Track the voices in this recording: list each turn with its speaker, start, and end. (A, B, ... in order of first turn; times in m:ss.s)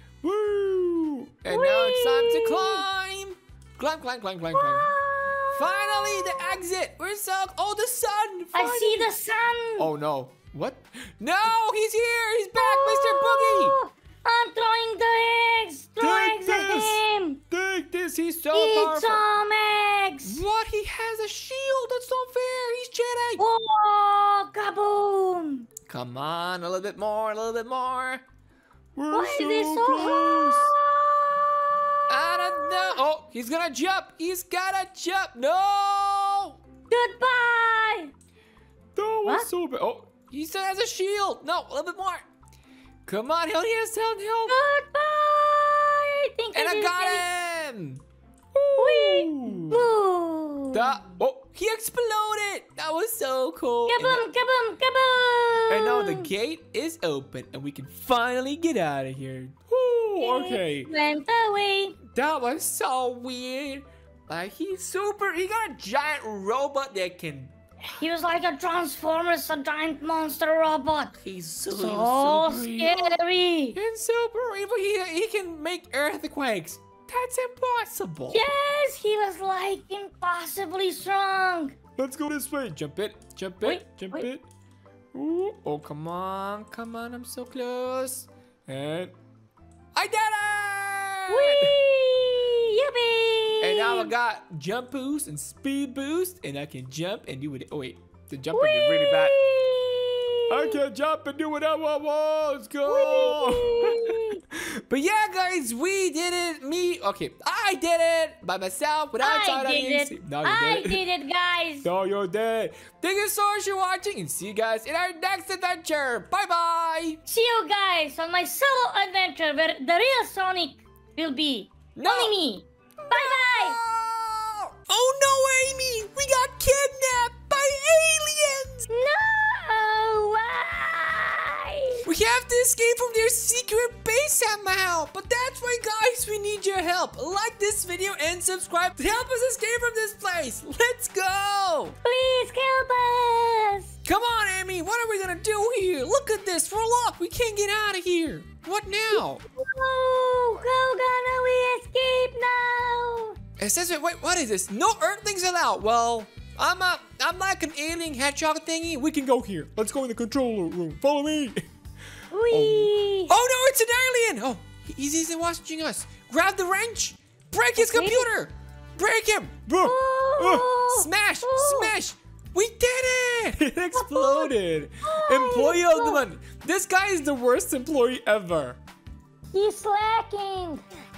0:00.2-0:04.9 A
0:01.5-0:02.8 B
0:04.5-0:06.6 B
0:05.5-0:09.1 A
0:08.5-0:09.9 B
0:09.8-0:13.8 A
0:12.6-0:17.4 B
0:16.0-0:19.2 A
0:18.5-0:20.4 B
0:20.2-0:23.4 A
0:23.4-0:25.7 B
0:25.9-0:28.2 A
0:29.0-0:30.7 A
0:29.1-0:33.0 B
0:32.1-0:36.6 A
0:36.9-0:38.1 B
0:39.0-0:42.2 A
0:43.1-0:44.6 A
0:44.5-0:47.2 B
0:46.5-0:48.0 A
0:48.5-0:49.9 A
0:48.8-0:51.0 B
0:50.7-0:54.2 A
0:53.9-0:56.3 B
0:55.7-1:00.9 A
1:00.2-1:02.0 B
1:02.1-1:07.5 A
1:07.8-1:11.2 B
1:11.2-1:13.2 A
1:11.7-1:13.8 B
1:13.7-1:18.4 A
1:18.3-1:21.8 B
1:22.0-1:24.4 A
1:23.6-1:24.3 B
1:25.1-1:29.1 A
1:29.9-1:31.8 A
1:31.3-1:34.1 B
1:33.6-1:39.4 A
1:38.5-1:40.8 B
1:40.5-1:51.0 A
1:42.9-1:44.4 B
1:49.2-1:51.9 B
1:51.8-1:57.2 A
1:57.3-2:03.8 B
2:01.9-2:02.4 A
2:03.0-2:08.9 A
2:08.9-2:12.1 B
2:12.0-2:22.0 A
2:22.0-2:23.9 B
2:24.0-2:29.4 A
2:29.1-2:33.4 B
2:33.6-2:41.6 A
2:42.3-2:43.3 B
2:42.5-2:58.8 A
2:47.8-2:48.3 B
2:49.8-2:51.9 B
2:53.9-2:54.5 B
2:55.0-2:56.2 B
2:59.5-3:00.8 B